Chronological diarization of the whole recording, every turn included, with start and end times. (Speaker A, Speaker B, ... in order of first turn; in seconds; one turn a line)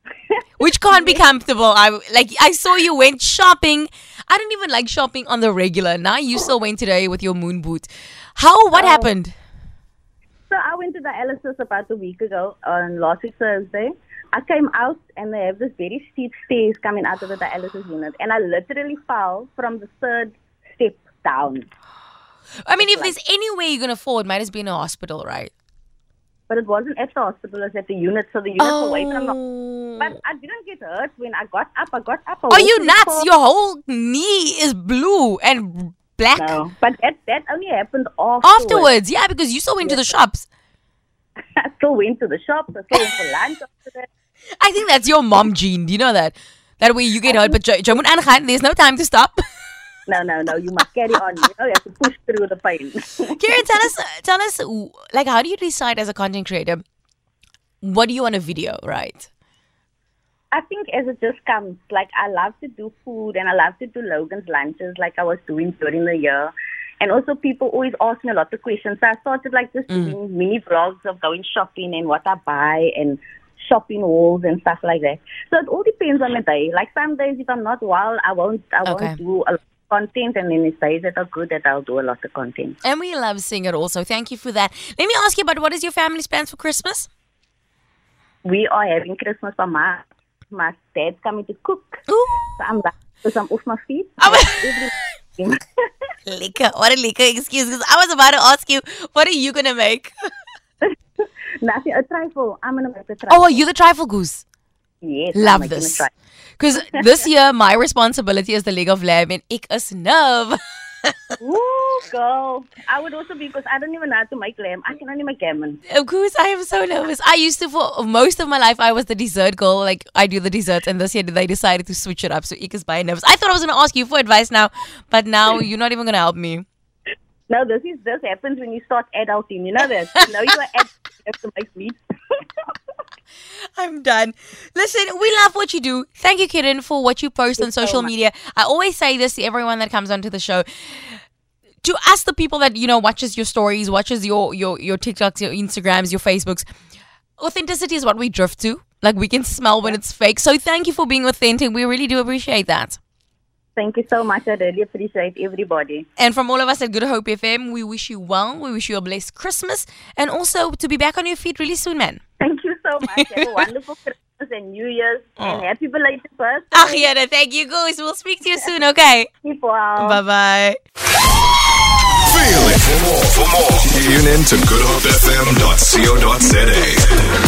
Speaker A: 0.3-1.2
Speaker B: 0.6-9.3
Speaker A: 8.7-9.1
Speaker A: 10.5-21.7
Speaker B: 22.6-25.5
Speaker A: 22.8-23.1
Speaker A: 26.5-29.4
Speaker B: 28.6-30.1
Speaker A: 30.0-33.3
Speaker B: 32.5-36.6
Speaker A: 36.4-38.9
Speaker B: 38.4-40.5
Speaker A: 39.8-40.2
Speaker A: 41.6-44.1
Speaker B: 44.6-49.4
Speaker A: 47.2-47.6
Speaker A: 50.1-53.6
Speaker B: 53.4-56.8
Speaker B: 57.8-59.3
Speaker A: 60.5-82.8
Speaker B: 69.9-70.2
Speaker B: 78.8-79.2
Speaker B: 82.8-87.1
Speaker A: 88.5-92.0
Speaker B: 92.1-92.6
Speaker A: 92.6-95.8
Speaker B: 94.2-94.6
Speaker B: 96.3-100.2
Speaker A: 100.8-103.6
Speaker B: 103.3-104.4
Speaker A: 105.0-106.1
Speaker B: 105.3-106.1
Speaker B: 106.6-111.2
Speaker A: 111.4-115.8
Speaker B: 115.9-126.7
Speaker A: 127.5-132.0
Speaker B: 133.8-141.2
Speaker A: 137.6-138.1
Speaker B: 141.8-146.7
Speaker B: 147.4-153.0
Speaker A: 153.8-156.1
Speaker B: 156.2-162.2
Speaker A: 162.4-167.1
Speaker B: 163.2-163.4
Speaker B: 165.4-165.6
Speaker B: 166.7-169.3
Speaker A: 169.4-170.2
Speaker B: 170.0-170.8
Speaker C: 172.3-177.3